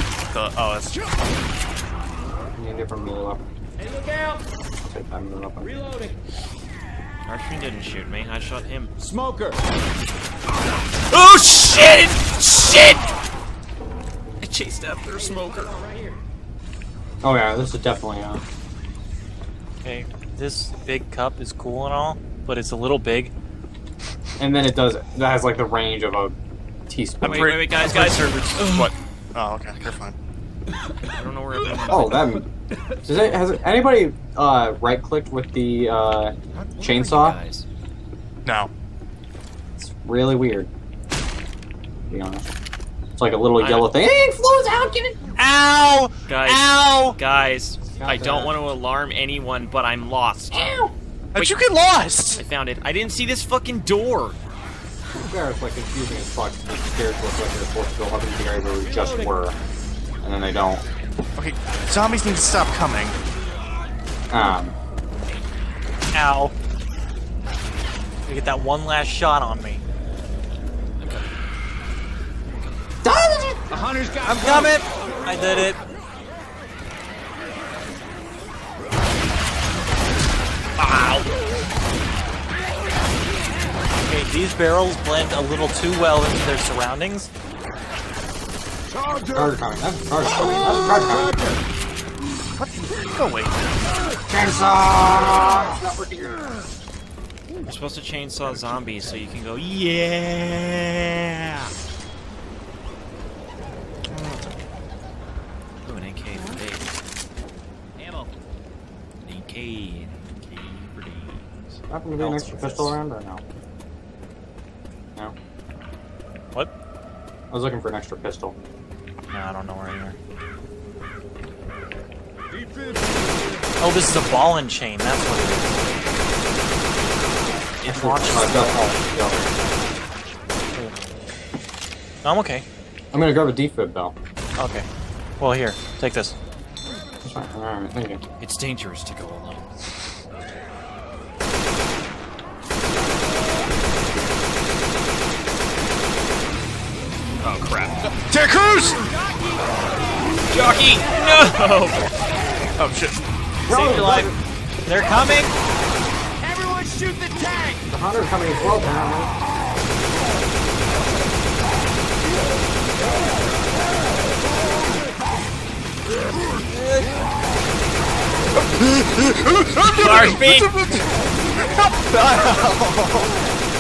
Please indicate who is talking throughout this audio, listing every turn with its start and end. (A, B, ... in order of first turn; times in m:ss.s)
0:00.3-0:01.0 A
0:02.6-0:03.4 B
0:04.8-0:05.8 B
0:07.3-0:08.9 C
0:09.0-0:09.6 D
0:11.1-0:13.1 C
0:14.4-0:15.8 C
0:17.2-0:18.4 B
0:19.8-0:23.3 E
0:24.4-0:26.4 B
0:26.9-0:27.6 B
0:27.2-0:28.9 C
0:27.2-0:30.2 A
0:31.1-0:32.4 C
0:31.9-0:32.5 B
0:33.0-0:37.4 B
0:36.5-0:37.6 C
0:38.4-0:38.7 A
0:39.8-0:40.7 B
0:42.1-0:42.5 B
0:43.2-0:45.3 B
0:43.6-0:43.9 C
0:45.4-0:47.2 E
0:46.3-0:50.7 C
0:47.9-0:48.6 B
0:50.5-0:50.9 B
0:51.3-0:52.4 A
0:52.4-0:54.4 C
0:55.1-0:59.6 B
1:00.2-1:00.8 B
1:01.4-1:03.2 A
1:04.3-1:04.8 B
1:06.1-1:06.5 E
1:08.2-1:09.8 E
1:11.0-1:11.3 C
1:13.0-1:13.8 B
1:13.7-1:15.1 D
1:14.2-1:15.8 E
1:20.8-1:21.3 C
1:24.1-1:27.3 E
1:29.3-1:31.5 B
1:32.6-1:33.6 A
1:34.3-1:36.5 B
1:37.6-1:41.7 C
1:38.5-1:39.0 A
1:44.1-1:44.5 A
1:45.8-1:47.0 C
1:48.0-1:48.3 D
1:49.2-1:53.0 C
1:51.9-1:53.4 B
1:57.5-1:58.6 B
1:59.3-2:00.2 E
2:03.8-2:06.0 E
2:07.8-2:09.0 E
2:07.8-2:09.5 B
2:10.7-2:11.1 E
2:12.2-2:12.7 E
2:13.1-2:14.2 B
2:14.6-2:14.9 E
2:15.4-2:16.4 E
2:17.2-2:18.2 B
2:18.4-2:19.7 C
2:27.4-2:28.1 C
2:28.2-2:29.0 A
2:29.3-2:29.6 D
2:30.5-2:32.1 C
2:32.8-2:33.2 A
2:33.7-2:34.3 E
2:33.7-2:34.3 B
2:34.8-2:35.5 E
2:36.4-2:37.8 D
2:37.9-2:39.3 B
2:48.7-2:53.3 A
2:49.9-2:50.7 C